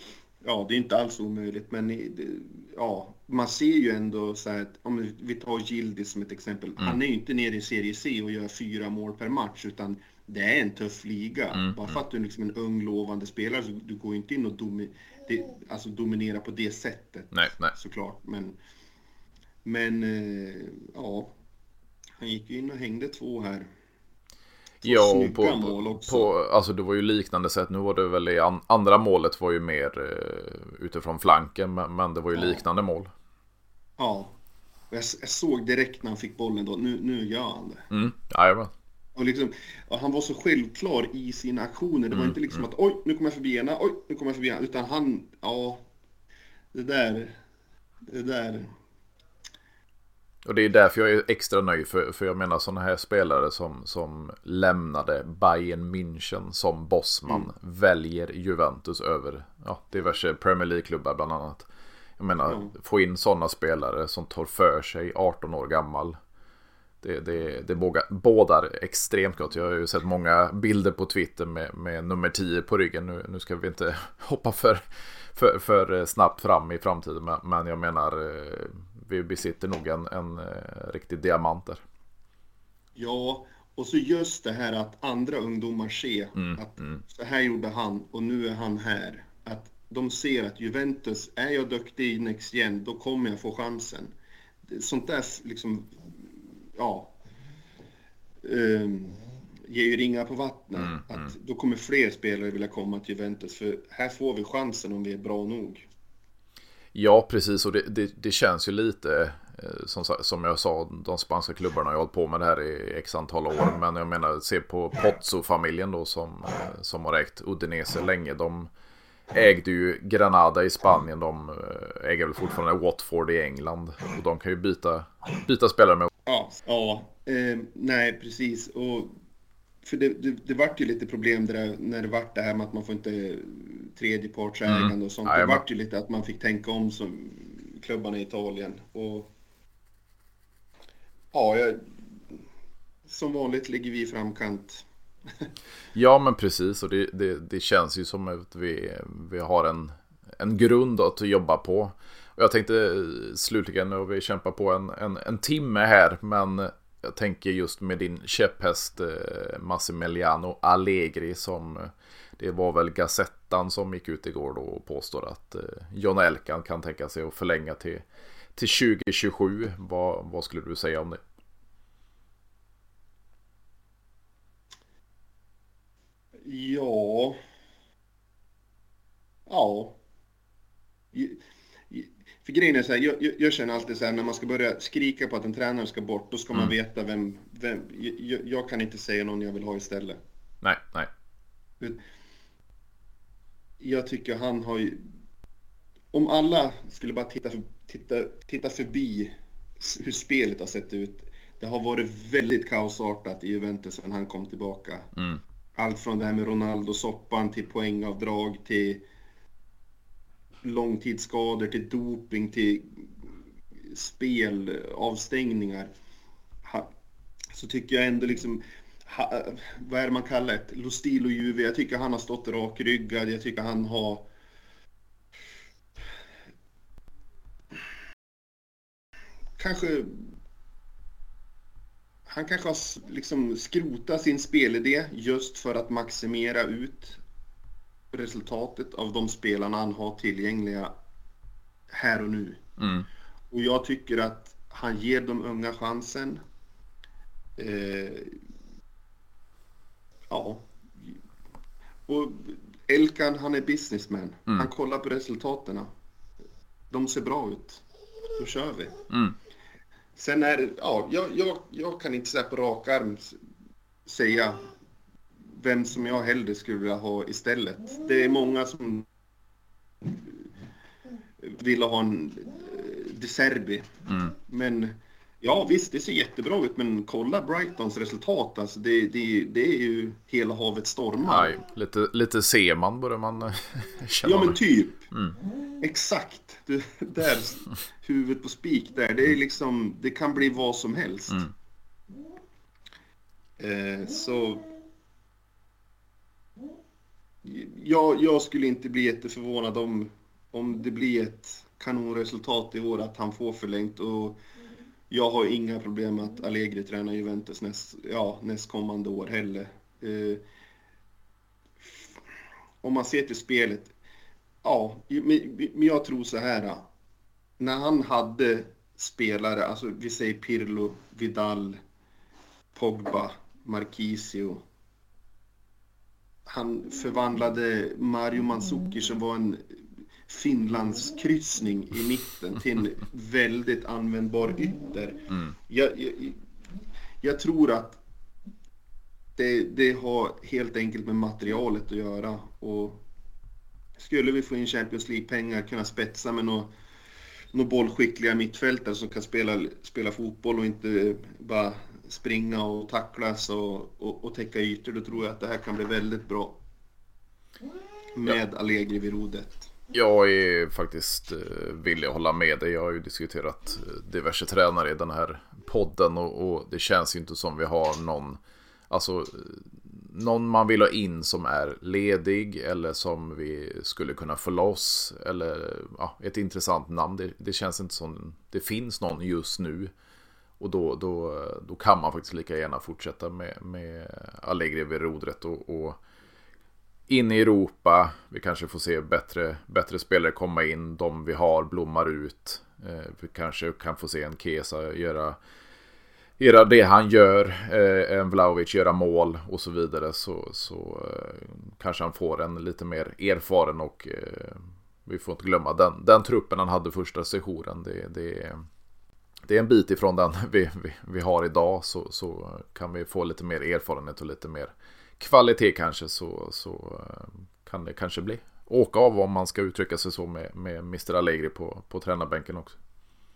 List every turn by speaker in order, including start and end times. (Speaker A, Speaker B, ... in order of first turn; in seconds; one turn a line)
Speaker A: 0.4-18.6
Speaker B: 11.6-12.0
Speaker B: 17.3-17.7
Speaker A: 19.6-21.3
Speaker A: 22.2-23.7
Speaker A: 24.8-26.3
Speaker B: 24.8-33.1
Speaker A: 32.3-32.6
Speaker A: 34.0-34.4
Speaker A: 34.9-37.9
Speaker B: 37.9-38.7
Speaker A: 39.2-45.9
Speaker B: 42.1-42.4
Speaker A: 46.7-47.4
Speaker A: 48.1-48.7
Speaker B: 50.5-61.7
Speaker B: 62.2-66.2
Speaker A: 62.5-62.7
Speaker B: 67.0-74.8
Speaker B: 75.3-81.8
Speaker A: 83.0-94.1
Speaker B: 86.4-87.0
Speaker A: 94.6-97.2
Speaker A: 98.4-105.9
Speaker B: 100.9-101.3
Speaker B: 106.9-118.7
Speaker B: 119.3-126.1
Speaker A: 126.3-129.2
Speaker A: 129.8-139.3
Speaker B: 134.7-135.6
Speaker A: 141.3-142.4
Speaker A: 143.1-144.9
Speaker B: 145.9-168.0
Speaker B: 168.6-171.2
Speaker A: 176.4-177.4
Speaker A: 179.5-180.0
Speaker A: 181.1-190.2
Speaker B: 190.6-191.1
Speaker A: 193.8-195.1
Speaker A: 196.1-205.1
Speaker A: 205.8-209.1
Speaker A: 210.6-213.1
Speaker A: 213.8-215.9
Speaker A: 216.6-216.9
Speaker A: 217.5-224.3
Speaker A: 229.6-230.3
Speaker A: 232.3-237.2
Speaker A: 238.1-240.9
Speaker A: 241.9-242.7
Speaker B: 242.8-243.1
Speaker A: 243.5-246.4
Speaker A: 247.6-248.4
Speaker A: 250.3-250.7
Speaker A: 252.1-255.9
Speaker A: 256.9-257.8
Speaker A: 258.4-258.9
Speaker A: 260.2-263.4
Speaker A: 264.1-264.7
Speaker A: 265.5-269.1
Speaker A: 270.0-270.4
Speaker A: 271.4-281.6
Speaker B: 274.1-274.3
Speaker B: 281.3-284.6
Speaker A: 284.2-285.1
Speaker A: 285.8-291.5
Speaker A: 293.6-294.7
Speaker A: 297.4-304.4
Speaker A: 305.1-310.4
Speaker A: 311.8-312.1
Speaker A: 312.8-313.9
Speaker A: 314.6-316.9
Speaker A: 317.6-321.8
Speaker A: 322.7-324.6
Speaker A: 326.5-329.8
Speaker A: 330.3-336.4
Speaker A: 337.2-338.0
Speaker A: 339.4-343.0
Speaker A: 344.0-346.7
Speaker A: 347.5-356.6
Speaker A: 358.1-359.7
Speaker B: 359.9-379.9
Speaker B: 380.6-386.0
Speaker B: 387.1-395.4
Speaker B: 396.4-408.6
Speaker B: 409.5-422.8